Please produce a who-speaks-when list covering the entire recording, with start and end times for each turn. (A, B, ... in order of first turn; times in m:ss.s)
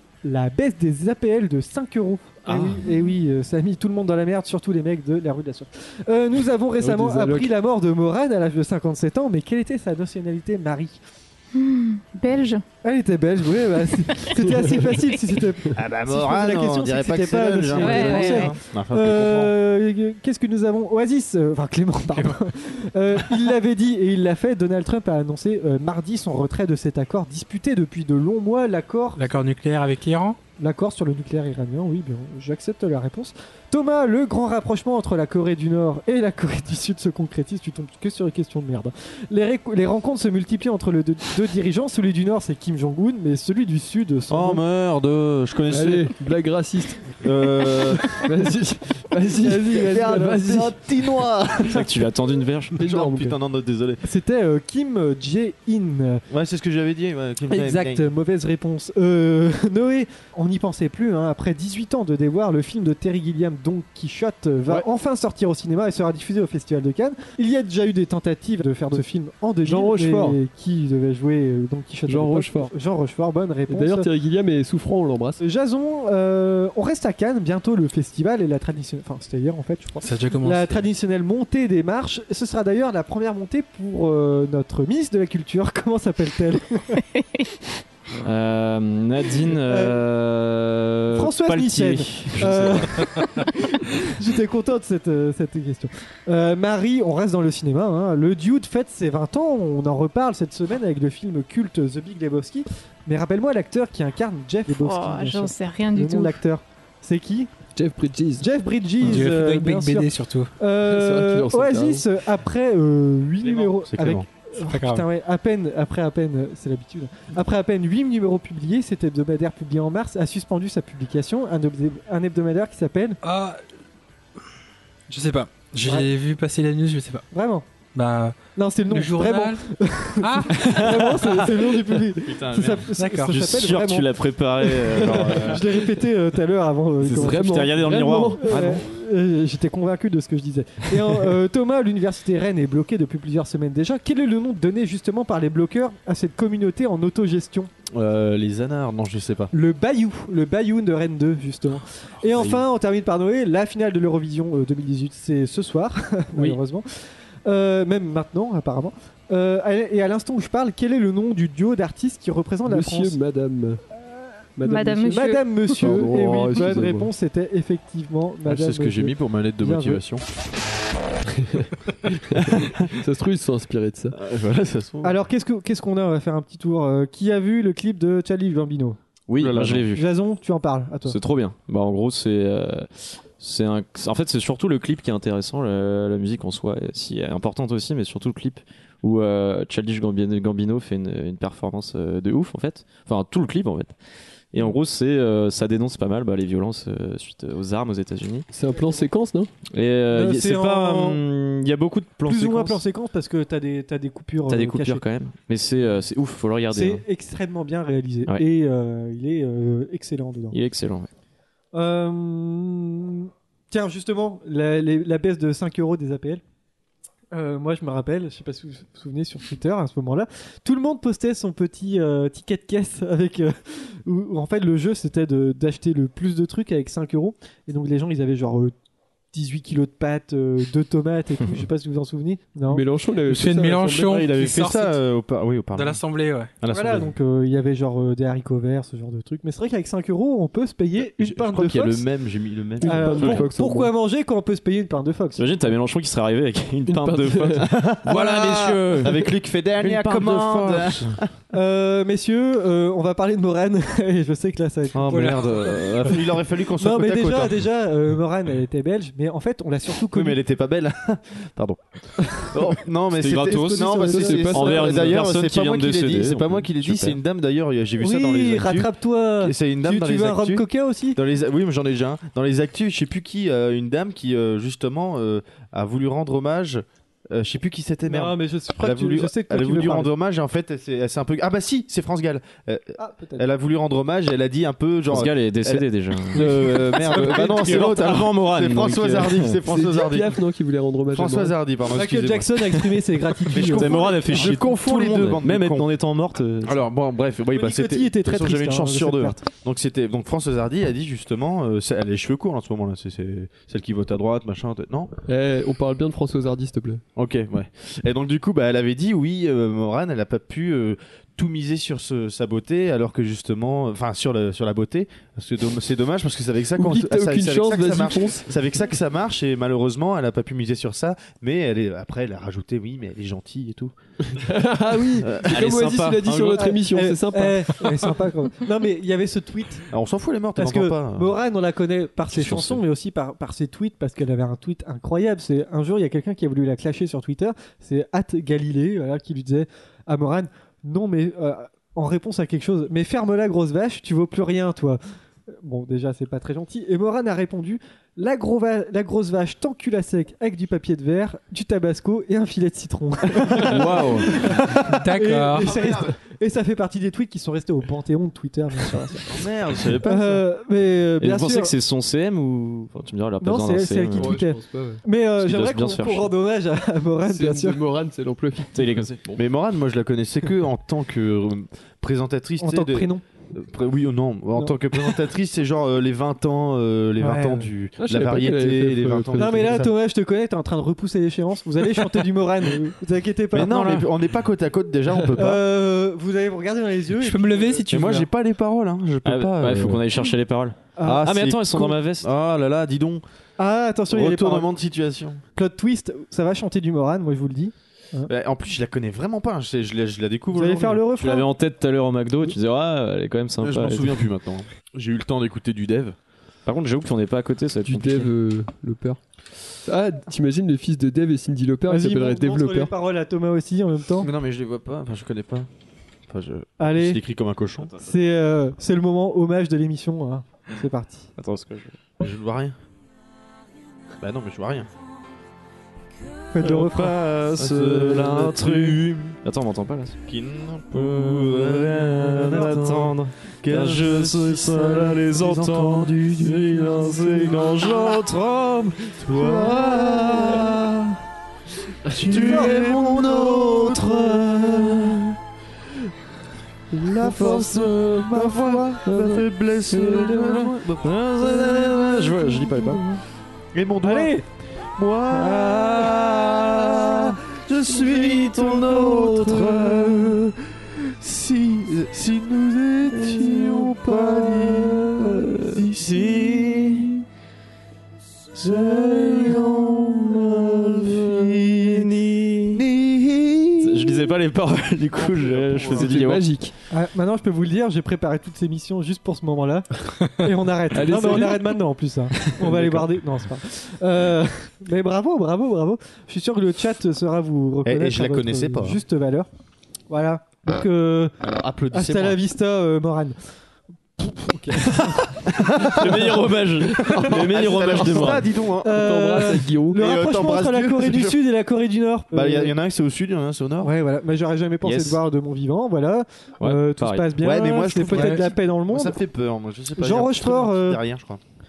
0:00.2-0:11.0 A
0:02.4-0:02.8 B
0:06.8-0:07.5 C
0:11.5-0:12.6 D
0:12.8-0:29.2 A
0:14.5-0:14.8 C
0:15.7-0:19.6 E
0:17.8-0:18.6 D
0:29.2-0:30.4 F
0:30.6-0:44.6 A
0:44.3-0:46.1 E
0:45.7-0:47.2 C
0:47.2-0:48.2 E
0:48.1-0:50.7 C
0:49.4-0:50.7 A
0:49.7-0:52.1 E
0:51.6-0:52.8 B
0:52.7-0:53.4 C
0:52.7-0:54.0 E
0:54.0-0:56.2 A
0:56.3-0:58.0 E
0:57.5-1:14.1 A
1:09.6-1:10.4 C
1:12.1-1:12.7 C
1:13.7-1:15.4 C
1:15.4-1:27.0 A
1:20.0-1:20.9 F
1:28.2-1:33.2 B
1:29.5-1:30.0 A
1:31.1-1:47.5 A
1:44.7-1:46.4 D
1:47.7-1:48.4 C
1:48.4-2:03.2 A
1:49.0-1:50.5 F
1:50.8-1:52.0 C
1:53.8-1:54.3 E
1:54.6-1:55.0 F
2:03.2-2:03.6 F
2:05.1-2:07.2 F
2:05.8-2:06.1 A
2:07.3-2:07.6 A
2:07.9-2:09.6 F
2:08.6-2:27.7 A
2:10.2-2:11.4 F
2:10.6-2:11.0 B
2:12.2-2:12.9 E
2:13.0-2:13.4 F
2:13.3-2:15.9 B
2:17.0-2:18.8 C
2:17.2-2:18.8 B
2:27.9-2:29.5 E
2:29.5-2:36.9 A
2:32.3-2:32.6 E
2:37.4-2:43.2 A
2:42.6-2:43.8 C
2:44.6-2:47.1 C
2:44.6-2:45.8 D
2:45.1-2:50.0 A
2:48.4-2:50.2 E
2:51.4-2:51.7 C
2:52.0-2:52.9 E
2:52.2-2:54.2 C
2:54.1-2:55.2 E
2:55.0-2:59.0 A
2:59.3-3:00.1 B
2:59.4-2:59.9 E
2:59.9-3:01.2 A
3:01.1-3:13.9 B
3:14.5-3:18.5 B
3:18.5-3:19.5 C
3:19.7-3:22.8 B
3:20.1-3:21.2 A
3:22.2-3:25.0 A
3:24.5-3:27.0 B
3:26.7-3:30.6 A
3:30.5-3:31.1 B
3:31.7-3:36.4 A
3:37.3-3:48.7 A
3:49.3-3:52.8 A
3:52.7-3:54.2 C
3:53.2-3:55.0 F
3:54.0-3:56.0 E
3:55.7-3:56.5 F
3:56.6-3:57.1 E
3:56.7-4:02.1 A
4:01.0-4:03.4 E
4:02.8-4:03.9 C
4:02.8-4:05.5 A
4:05.4-4:11.2 B
4:06.9-4:07.6 C
4:07.6-4:11.3 E
4:11.5-4:20.4 A
4:14.9-4:17.6 E
4:20.1-4:50.4 E
4:23.1-4:27.2 B
4:23.4-4:24.5 A
4:24.1-4:25.1 C
4:28.0-4:31.2 A
4:38.0-4:40.1 A
4:43.0-4:43.4 A
4:45.1-4:49.6 B
4:46.4-4:47.6 C
4:49.7-4:51.5 C
4:51.1-4:52.8 E
4:51.9-4:54.6 A
4:53.5-4:55.9 E
4:53.6-4:56.8 B
4:56.6-5:05.1 E
4:57.5-4:59.4 A
5:05.3-5:07.0 C
5:07.2-5:23.9 E
5:16.8-5:18.5 C
5:24.3-5:28.2 C
5:25.1-5:26.8 E
5:25.4-5:26.5 B
5:26.6-5:29.9 A
5:29.9-5:31.3 E
5:30.6-5:59.3 A
5:32.3-5:32.8 B
5:53.5-5:55.0 E
5:53.7-5:54.2 B
5:54.9-5:55.8 F
5:55.6-5:56.1 E
5:59.2-6:00.4 E
6:00.0-6:01.7 A
6:01.2-6:04.3 B
6:03.4-6:07.8 A
6:04.1-6:05.0 C
6:05.4-6:06.3 B
6:07.2-6:09.4 C
6:08.7-6:09.4 B
6:09.4-6:19.9 E
6:12.6-6:13.2 A
6:14.5-6:14.8 A
6:17.2-6:17.7 A
6:18.0-6:19.8 C
6:19.4-6:24.1 A
6:23.5-6:25.6 E
6:25.3-6:27.8 A
6:27.2-6:28.3 F
6:27.9-6:30.0 E
6:29.2-6:32.3 B
6:31.0-6:31.2 A
6:31.0-6:33.2 E
6:33.6-6:34.8 A
6:34.1-6:35.4 E
6:35.6-6:38.3 A
6:38.3-6:41.0 E
6:40.5-6:41.5 A
6:41.2-6:44.2 B
6:43.6-6:46.2 E
6:46.6-6:48.3 B
6:47.8-6:49.2 C
6:49.8-6:52.9 C
6:51.9-6:54.3 A
6:54.2-6:55.7 E
6:56.3-6:57.9 E
6:56.8-6:57.2 A
6:58.0-7:01.3 A
7:01.4-7:02.0 B
7:02.2-7:02.8 E
7:04.2-7:04.9 E
7:06.5-7:07.2 A
7:06.6-7:09.4 E
7:06.6-7:10.2 B
7:10.2-7:18.4 E
7:10.9-7:20.6 B
7:19.0-7:21.2 E
7:22.1-7:25.4 E
7:22.3-7:22.9 A
7:22.3-7:24.0 B
7:26.9-7:33.2 E
7:27.3-7:33.0 B
7:33.7-7:34.4 E
7:34.0-7:34.4 A
7:35.0-7:47.2 E
7:35.3-7:37.3 B
7:38.0-7:40.4 B
7:43.8-7:45.8 B
7:46.4-7:47.1 B
7:48.5-7:52.1 E
7:49.2-7:49.6 B
7:51.0-7:52.8 B
7:52.7-7:54.4 E
7:53.8-7:56.5 B
7:55.1-7:56.4 E
7:56.0-7:56.7 C
7:56.9-8:09.5 A
8:00.9-8:01.8 C
8:07.8-8:09.0 E
8:10.1-8:11.4 A
8:11.4-8:12.4 E
8:11.9-8:13.4 A
8:14.2-8:15.2 A
8:14.7-8:19.2 E
8:15.8-8:18.4 B
8:17.1-8:20.0 C
8:18.8-8:22.7 A
8:19.9-8:21.4 E
8:22.3-8:23.9 E
8:23.8-8:29.2 A
8:24.8-8:25.2 B
8:26.6-8:27.3 B
8:27.4-8:31.4 E
8:28.1-8:28.4 F
8:30.0-8:31.0 A